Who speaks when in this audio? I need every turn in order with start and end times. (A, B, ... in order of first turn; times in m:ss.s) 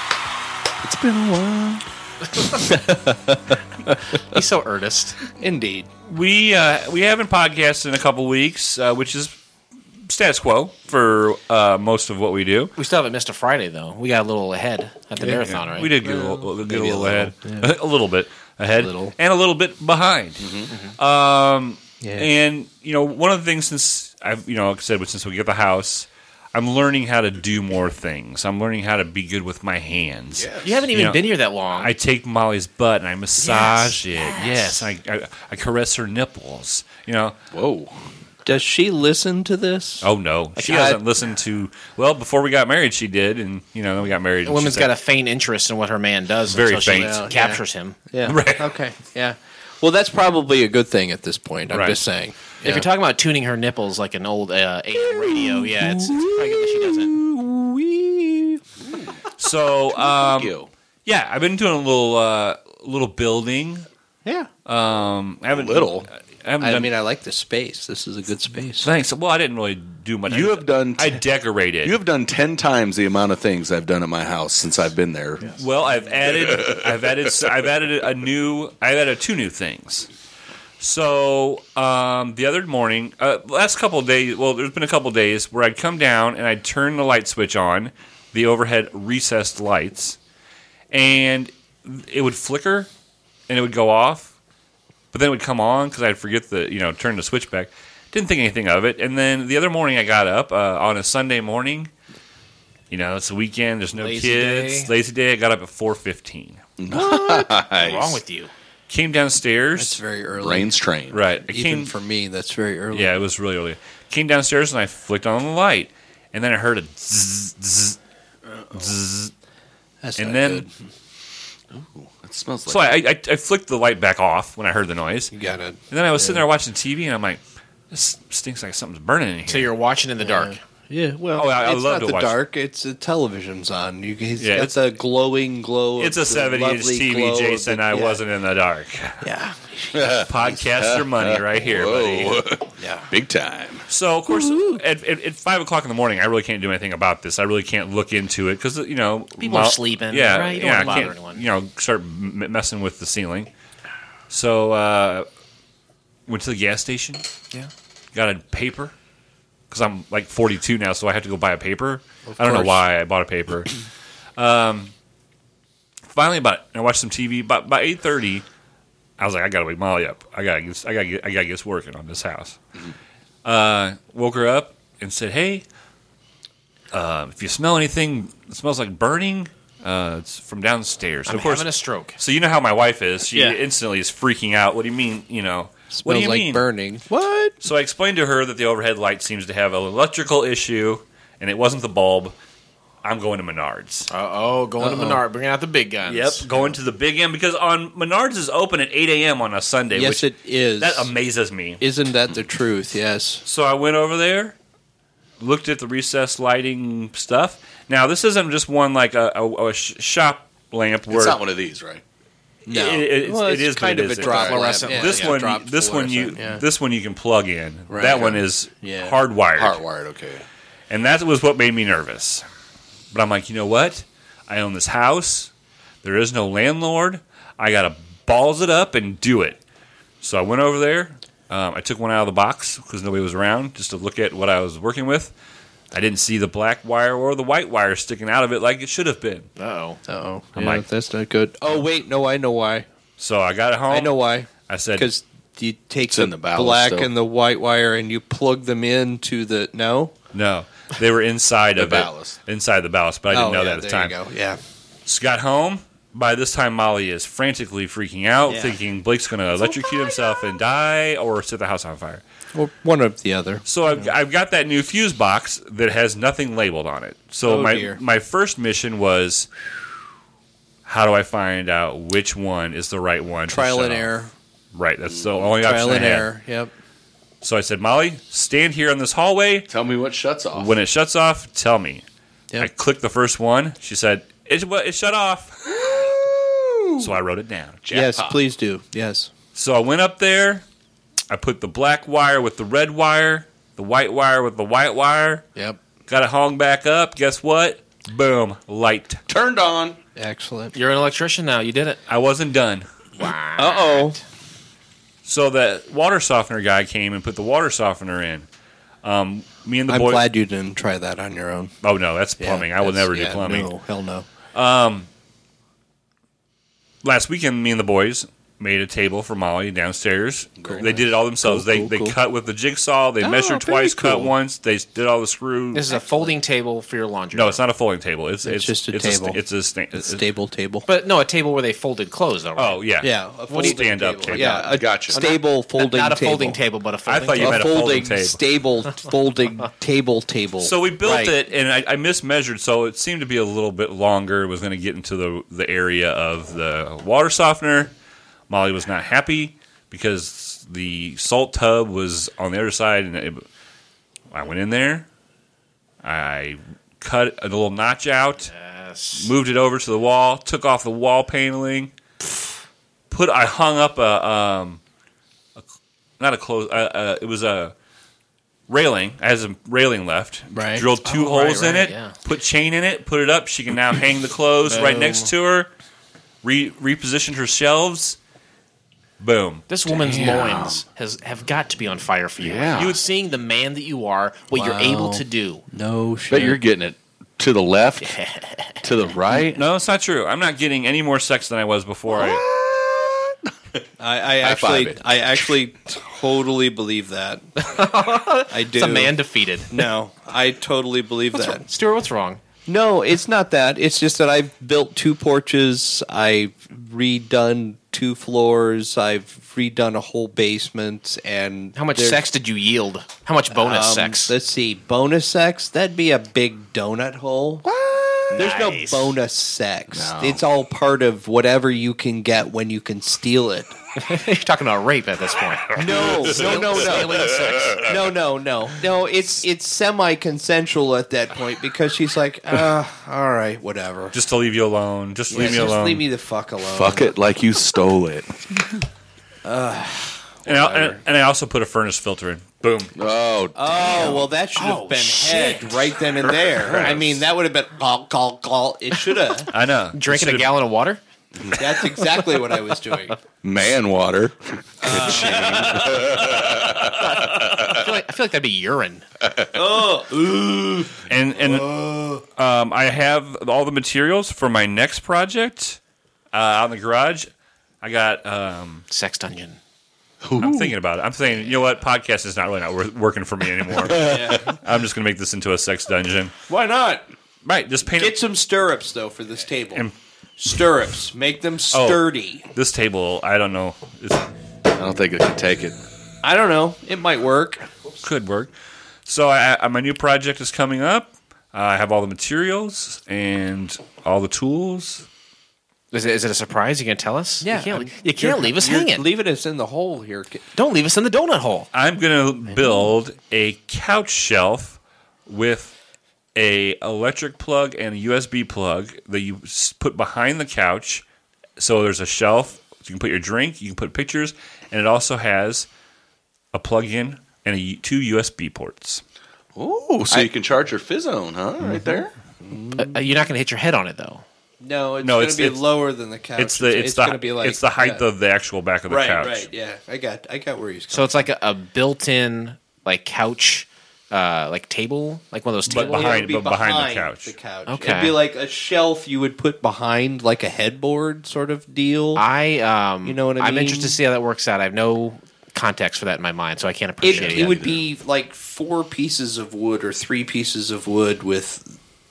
0:00.8-0:01.8 A
0:02.4-0:04.2 B
0:04.3-0:05.2 C
0:05.4-0:05.9 B
0:06.0-0:09.3 D
0:10.0-0:12.7 D
0:12.8-0:16.1 C
0:15.2-0:17.7 B
0:15.4-0:37.4 D
0:18.8-0:19.1 B
0:20.4-0:20.7 A
0:22.0-0:22.3 B
0:30.3-0:30.7 A
0:30.6-0:31.9 C
0:33.4-0:34.9 C
0:37.5-0:37.9 A
0:38.4-0:40.1 B
0:40.0-0:44.9 D
0:40.6-0:41.0 C
0:44.4-0:48.0 C
0:46.5-0:47.2 D
0:46.9-0:52.8 B
0:48.2-0:48.7 D
0:51.7-0:52.0 D
0:52.6-0:57.2 C
0:55.2-0:58.6 B
0:58.8-0:59.2 A
0:59.4-1:00.5 D
1:00.0-1:00.7 A
1:01.0-1:03.8 D
1:04.6-1:06.9 D
1:05.5-1:06.1 A
1:06.6-1:08.9 B
1:08.8-1:12.0 D
1:10.3-1:11.2 A
1:11.8-1:15.6 A
1:15.5-1:20.1 D
1:16.2-1:17.3 A
1:20.8-1:30.2 D
1:30.9-1:32.9 D
1:33.5-1:34.3 D
1:35.1-1:41.9 D
1:42.9-1:46.6 D
1:44.0-1:44.9 C
1:46.8-1:48.2 A
1:46.9-1:48.5 C
1:48.9-1:50.0 D
1:49.8-1:50.8 B
1:50.4-1:51.2 A
1:51.1-1:51.9 D
1:51.4-1:53.1 B
1:52.9-1:58.0 D
1:58.7-1:59.3 D
2:00.0-2:00.7 B
2:00.2-2:00.7 D
2:01.7-2:03.0 A
2:02.7-2:05.3 D
2:05.3-2:06.4 B
2:05.9-2:09.7 D
2:09.5-2:10.6 C
2:10.2-2:18.2 B
2:11.3-2:12.4 D
2:14.4-2:14.7 D
2:16.0-2:19.2 D
2:19.2-2:20.6 B
2:19.9-2:23.8 A
2:20.1-2:22.4 D
2:22.8-2:23.1 B
2:23.9-2:33.5 D
2:24.3-2:24.8 B
2:29.4-2:31.4 C
2:34.3-2:35.3 D
2:36.3-2:37.2 D
2:38.1-2:38.9 D
2:39.7-2:43.7 D
2:42.3-2:42.8 B
2:44.4-2:44.9 D
2:46.1-2:48.4 D
2:49.2-2:52.6 D
2:53.4-2:55.6 D
2:56.9-3:06.6 D
3:01.2-3:02.2 C
3:03.3-3:03.6 B
3:05.9-3:07.5 B
3:07.6-3:12.3 D
3:13.0-3:14.1 D
3:14.1-3:16.4 C
3:14.8-3:15.2 B
3:16.0-3:21.8 D
3:19.9-3:21.1 B
3:21.8-3:23.4 B
3:23.4-3:24.6 D
3:25.4-3:31.4 D
3:31.1-3:32.0 A
3:32.6-3:39.8 D
3:32.7-3:36.6 B
3:34.2-3:34.6 A
3:34.2-3:35.4 C
3:37.9-3:39.2 B
3:39.6-3:40.4 A
3:40.9-3:42.4 D
3:43.1-3:45.5 D
3:46.0-3:49.6 D
3:50.2-3:55.3 D
3:55.9-3:59.5 D
3:59.6-4:00.0 C
4:00.1-4:02.8 B
4:00.6-4:00.8 D
4:03.2-4:05.1 D
4:03.9-4:10.1 B
4:06.1-4:07.1 A
4:10.3-4:14.2 D
4:11.8-4:12.4 A
4:13.3-4:14.6 B
4:15.0-4:22.2 D
4:18.5-4:18.8 B
4:22.5-4:23.6 B
4:23.6-4:29.5 D
4:27.4-4:28.0 B
4:30.8-4:34.1 D
4:33.5-4:34.3 B
4:34.7-4:36.3 D
4:35.0-4:35.5 A
4:35.6-4:36.7 B
4:37.4-4:39.7 D
4:39.7-4:40.7 A
4:40.5-4:42.0 D
4:42.6-4:46.0 D
4:45.7-4:47.1 B
4:47.0-4:48.2 D
4:47.9-4:49.3 B
4:49.5-4:50.6 D
4:51.3-4:55.5 D
4:56.1-4:59.2 D
4:59.3-5:00.0 A
5:00.2-5:00.7 B
5:00.7-5:02.0 C
5:02.1-5:02.9 D
5:03.2-5:04.2 C
5:03.6-5:04.2 B
5:05.2-5:08.5 D
5:09.0-5:10.2 D
5:09.9-5:11.7 B
5:11.8-5:13.7 D
5:12.4-5:14.2 B
5:14.5-5:15.1 D
5:17.0-5:25.9 D
5:20.6-5:21.0 A
5:20.7-5:22.2 B
5:23.2-5:24.3 B
5:25.7-5:27.6 C
5:27.3-5:30.2 D
5:28.4-5:29.4 B
5:30.0-5:30.9 B
5:30.8-5:32.8 C
5:32.6-5:34.6 D
5:33.0-5:36.6 B
5:33.5-5:33.8 C
5:34.3-5:37.6 C
5:34.7-5:35.2 A
5:37.1-5:38.4 D
5:37.4-5:41.3 B
5:40.6-5:47.9 D
5:48.5-5:53.4 D
5:54.3-5:55.1 D
5:56.0-5:58.5 D
5:58.5-5:59.3 C
5:59.2-6:01.9 D
6:03.1-6:04.8 D
6:06.2-6:07.7 D
6:08.7-6:15.7 D
6:10.5-6:10.9 B
6:11.0-6:12.2 C
6:14.6-6:15.3 C
6:16.4-6:18.2 D
6:19.2-6:19.6 D
6:19.7-6:25.6 C
6:19.8-6:20.8 A
6:22.4-6:23.0 A
6:24.5-6:26.6 B
6:26.3-6:28.1 A
6:28.0-6:28.8 C
6:28.8-6:29.6 A
6:29.3-6:32.4 D
6:32.1-6:33.4 A
6:34.0-6:37.4 B
6:34.4-6:35.0 A
6:37.6-6:39.9 C
6:38.5-6:39.1 B
6:39.7-6:41.6 B
6:41.3-6:42.4 C
6:42.7-6:52.2 B
6:51.7-6:54.3 C
6:53.5-6:57.6 B
6:57.7-6:58.3 A
6:58.3-6:59.1 C
6:58.4-7:03.7 B
6:59.9-7:00.4 A
7:04.0-7:07.9 C
7:05.8-7:14.1 B
7:05.9-7:08.0 A
7:14.1-7:16.0 D
7:15.3-7:17.1 B
7:15.3-7:15.6 A
7:16.6-7:18.8 A
7:19.4-7:21.0 B
7:20.4-7:22.9 D
7:22.9-7:24.1 A
7:23.6-7:29.5 B
7:23.7-7:25.9 C
7:26.2-7:27.2 A
7:29.5-7:30.5 D
7:29.9-7:31.0 C
7:31.4-7:31.6 A
7:31.6-7:33.2 B
7:33.4-7:37.9 A
7:34.8-7:37.4 B
7:34.8-7:36.0 C
7:37.0-7:39.0 C
7:39.2-7:39.6 A
7:39.5-7:42.2 B
7:41.1-7:41.7 D
7:42.2-7:45.8 D
7:46.3-7:47.3 D
7:47.8-7:48.8 D
7:48.9-7:49.6 C
7:50.2-7:50.7 A
7:50.4-7:56.3 D
7:51.3-7:51.6 C
7:53.7-7:54.5 A
7:54.0-7:54.5 B
7:56.5-7:57.1 B
7:57.4-7:58.2 D
7:57.9-7:59.8 B
8:00.4-8:02.5 B
8:01.7-8:04.3 D
8:04.7-8:05.8 A
8:06.2-8:07.7 B
8:08.0-8:08.5 D
8:09.0-8:15.0 D
8:15.9-8:19.0 C
8:17.4-8:20.4 B
8:20.5-8:21.7 C
8:21.7-8:25.7 D
8:22.5-8:22.8 B
8:26.3-8:31.0 D
8:31.6-8:35.7 D
8:36.5-8:39.0 D
8:39.6-8:42.1 A
8:42.4-8:43.0 B
8:42.8-8:44.2 C
8:44.6-8:48.0 B
8:45.0-8:45.6 D
8:46.4-8:49.5 D
8:48.9-8:51.3 B
8:50.9-8:56.3 C
8:55.7-8:57.4 D
8:55.8-9:02.2 B
8:57.7-8:58.2 C
9:02.2-9:07.7 C
9:03.0-9:04.0 B
9:07.0-9:11.7 B
9:07.0-9:07.8 A